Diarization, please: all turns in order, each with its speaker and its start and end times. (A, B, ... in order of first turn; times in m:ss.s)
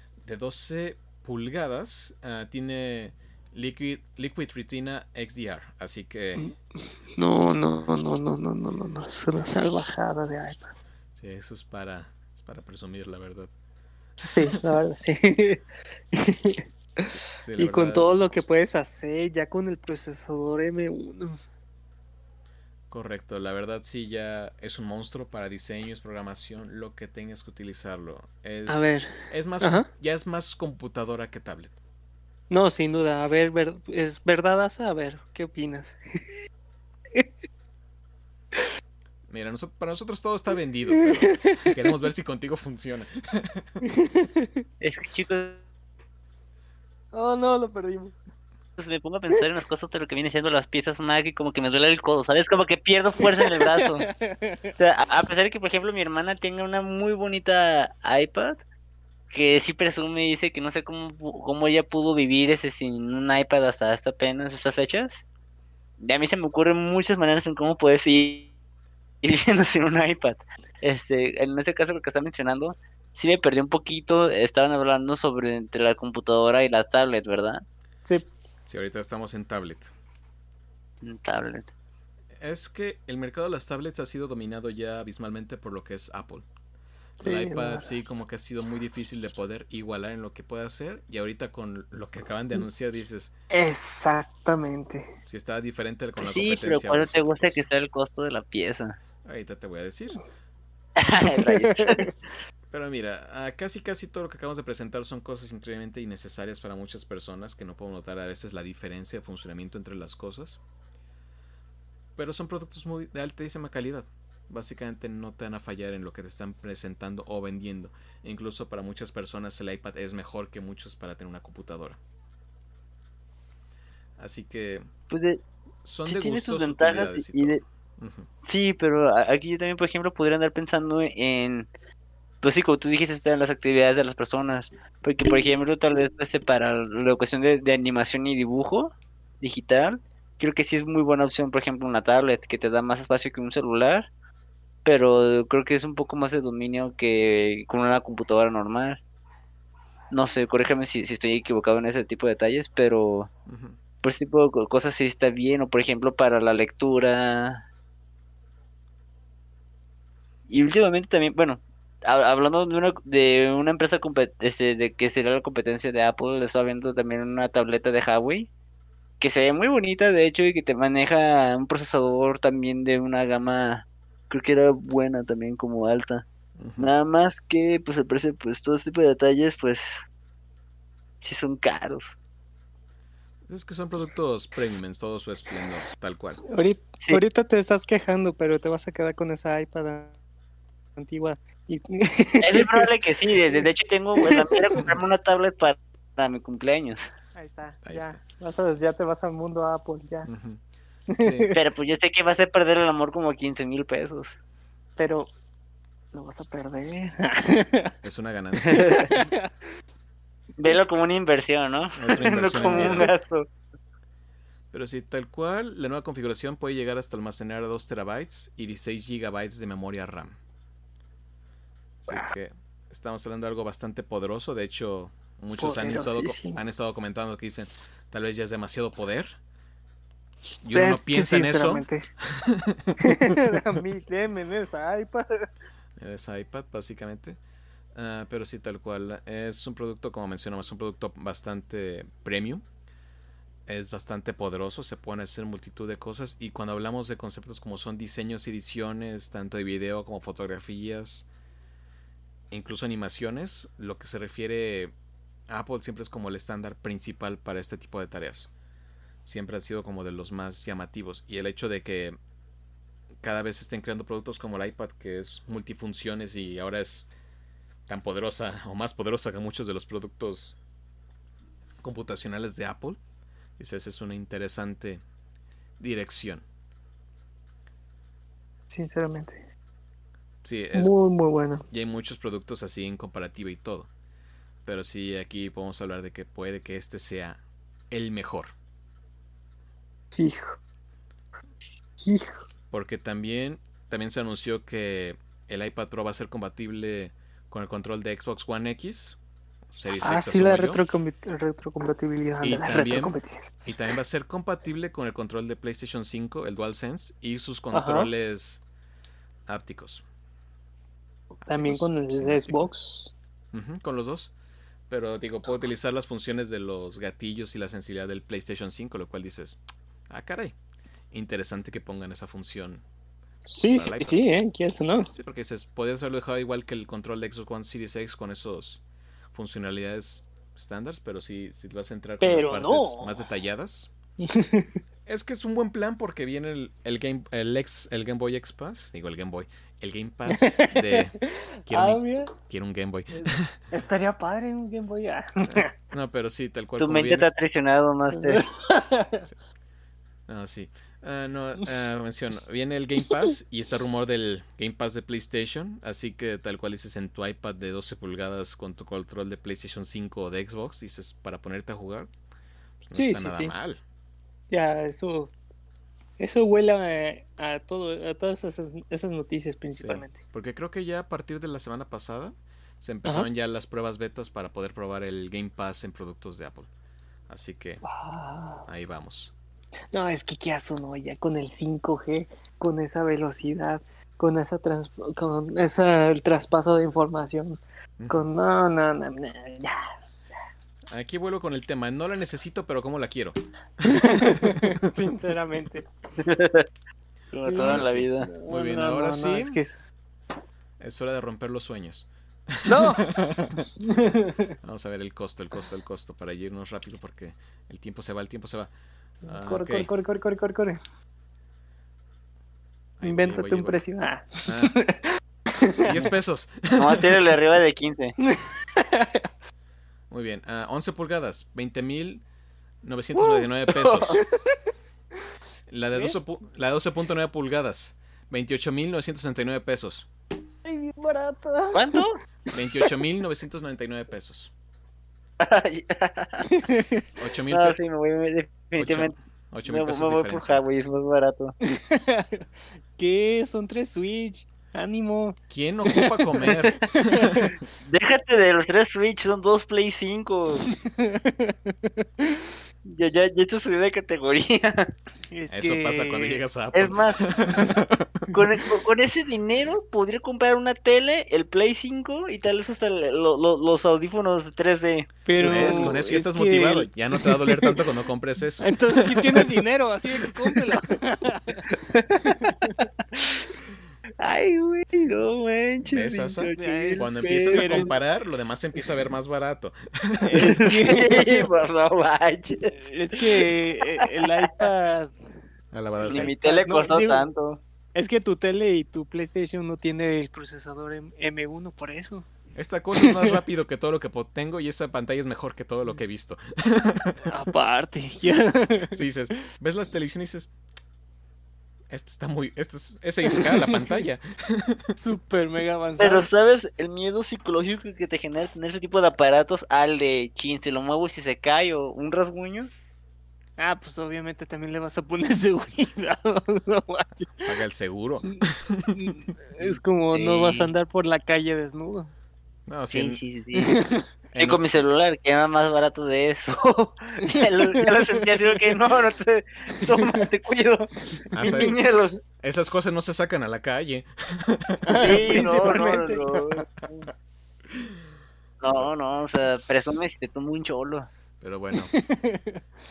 0:00.3-0:06.5 A
0:07.1-0:10.7 B
0:11.2-0:13.5 A
0:14.3-0:21.5 B
0:17.3-0:18.5 A
0:22.9-0:31.8 A
0:28.7-0:29.9 B
0:32.5-0:36.0 B
0:39.3-0:43.8 A
0:41.0-0:41.8 B
0:43.8-0:44.6 B
0:44.8-0:45.6 C
0:47.1-0:48.2 B
0:48.8-0:54.1 C
0:53.2-0:54.8 B
0:54.8-0:58.6 C
0:59.3-1:05.2 C
1:06.0-1:08.5 C
1:09.2-1:17.6 C
1:18.7-1:19.9 A
1:21.0-1:21.7 C
1:22.4-1:26.5 A
1:27.2-1:33.3 A
1:27.2-1:28.0 B
1:33.5-1:35.1 B
1:35.3-1:37.7 A
1:36.2-1:39.0 C
1:39.2-1:40.2 A
1:41.0-1:42.1 C
1:41.2-1:42.1 B
1:42.7-1:50.6 A
1:52.2-2:02.0 A
2:04.2-2:04.9 A
2:05.1-2:05.4 C
2:05.8-2:08.3 A
2:06.1-2:07.6 C
2:08.5-2:11.7 C
2:12.4-2:24.1 C
2:24.8-2:29.0 C
2:30.1-2:33.3 C
2:33.5-2:33.8 A
2:34.0-2:37.6 C
2:40.5-2:48.5 C
2:49.2-2:56.3 C
2:56.6-2:56.9 A
2:56.8-3:00.1 C
3:01.2-3:02.2 C
3:03.5-3:06.4 A
3:06.5-3:10.2 B
3:11.0-3:14.9 B
3:12.4-3:17.1 C
3:17.4-3:20.3 B
3:17.8-3:18.2 A
3:20.3-3:20.6 A
3:21.1-3:21.6 B
3:21.2-3:21.5 A
3:21.5-3:24.4 C
3:25.0-3:25.3 B
3:26.1-3:27.9 B
3:28.0-3:29.2 A
3:28.6-3:29.5 B
3:30.6-3:33.5 C
3:32.0-3:33.2 A
3:32.6-3:33.1 B
3:34.7-3:40.4 A
3:42.0-3:49.4 A
3:42.1-3:42.3 B
3:45.6-3:46.6 B
3:50.6-3:53.4 A
3:50.7-3:52.1 B
3:53.0-3:55.5 B
3:56.0-3:57.4 A
3:58.0-4:02.6 A
4:03.7-4:11.3 A
4:12.5-4:14.9 A
4:15.5-4:18.5 A
4:19.2-4:22.2 A
4:23.2-4:27.1 A
4:27.9-4:30.6 A
4:31.8-4:33.0 A
4:33.6-4:35.0 A
4:35.8-4:36.4 A
4:38.7-4:39.4 B
4:40.4-4:41.0 A
4:40.7-4:41.7 B
4:41.7-4:43.9 A
4:44.6-4:47.4 A
4:47.9-4:48.5 A
4:50.1-4:50.6 B
4:52.0-4:52.5 B
4:52.7-4:59.2 A
4:59.7-5:00.8 A
5:00.0-5:03.5 B
5:02.4-5:08.6 A
5:07.7-5:08.1 B
5:09.5-5:10.0 A
5:11.4-5:12.7 A
5:11.5-5:13.1 B
5:13.5-5:14.3 A
5:14.9-5:20.6 A
5:21.1-5:22.8 A
5:23.4-5:25.1 B
5:23.7-5:24.3 A
5:25.1-5:28.8 A
5:29.3-5:33.9 A
5:32.2-5:33.2 B
5:34.2-5:34.8 B
5:35.1-5:43.6 A
5:40.3-5:42.3 B
5:43.7-5:45.7 B
5:45.5-5:47.3 A
5:46.8-5:48.4 C
5:48.1-5:49.3 B
5:50.3-6:02.1 A
6:02.8-6:03.8 A
6:03.0-6:03.6 B
6:04.5-6:05.3 B
6:06.2-6:10.2 B
6:09.7-6:16.7 A
6:17.3-6:17.8 A
6:17.8-6:18.7 B
6:18.7-6:19.3 A
6:19.9-6:29.8 B
6:28.0-6:28.2 A
6:30.9-6:34.9 A
6:33.8-6:35.9 B
6:36.2-6:36.7 C
6:37.3-6:38.3 C
6:37.4-6:39.8 B
6:37.6-6:39.6 A
6:40.8-6:43.6 A
6:42.6-6:44.6 B
6:44.6-6:48.7 A
6:49.2-6:49.9 A
6:49.2-6:50.8 B
6:53.0-6:53.8 A
6:53.0-6:56.1 B
6:54.4-6:54.8 A
6:55.8-6:57.2 A
6:56.8-6:58.2 C
6:58.2-6:59.3 B
7:00.1-7:02.2 A
7:02.8-7:04.2 A
7:03.2-7:03.5 B
7:03.8-7:04.2 C
7:04.1-7:04.7 B
7:05.7-7:10.1 A
7:10.6-7:12.9 B
7:11.7-7:12.2 C
7:12.5-7:14.5 A
7:15.4-7:16.5 C
7:16.5-7:17.0 B
7:17.2-7:17.8 A
7:17.5-7:19.1 C
7:18.8-7:20.6 A
7:19.6-7:21.6 C
7:21.6-7:27.6 B
7:25.5-7:27.6 A
7:27.8-7:30.7 C
7:30.8-7:32.6 B
7:32.8-7:34.9 C
7:35.3-7:36.4 B
7:35.5-7:38.3 A
7:36.7-7:37.3 C
7:38.3-7:46.0 C
7:45.3-7:47.9 B
7:45.4-7:49.5 A
7:48.6-7:52.8 B
7:52.4-7:53.4 C
7:54.2-7:57.8 C
7:55.9-8:00.5 A
7:56.6-7:58.0 B
8:00.3-8:01.5 B
8:00.3-8:04.7 C
8:02.7-8:05.2 B
8:05.7-8:06.3 A
8:06.0-8:07.3 B
8:06.1-8:07.6 C
8:07.9-8:12.3 B
8:12.6-8:17.3 A
8:13.0-8:13.4 B
8:17.3-8:19.0 B
8:18.9-8:20.5 A
8:21.9-8:25.0 A
8:23.2-8:24.0 B
8:25.0-8:26.3 B
8:26.0-8:32.7 C
8:33.6-8:37.5 B
8:37.4-8:39.7 A
8:38.3-8:42.1 B
8:40.1-8:40.7 C
8:42.7-8:43.2 A
8:42.9-8:52.2 C
8:43.6-8:44.1 B
8:44.4-8:44.7 A
8:47.2-8:48.8 B
8:49.8-8:50.3 B
8:51.3-8:51.8 A
8:51.4-8:51.7 B
8:52.4-8:55.5 A
8:54.9-8:56.4 B
8:55.0-8:57.0 C
8:58.6-9:01.1 C
9:01.4-9:02.0 A
9:01.7-9:02.6 B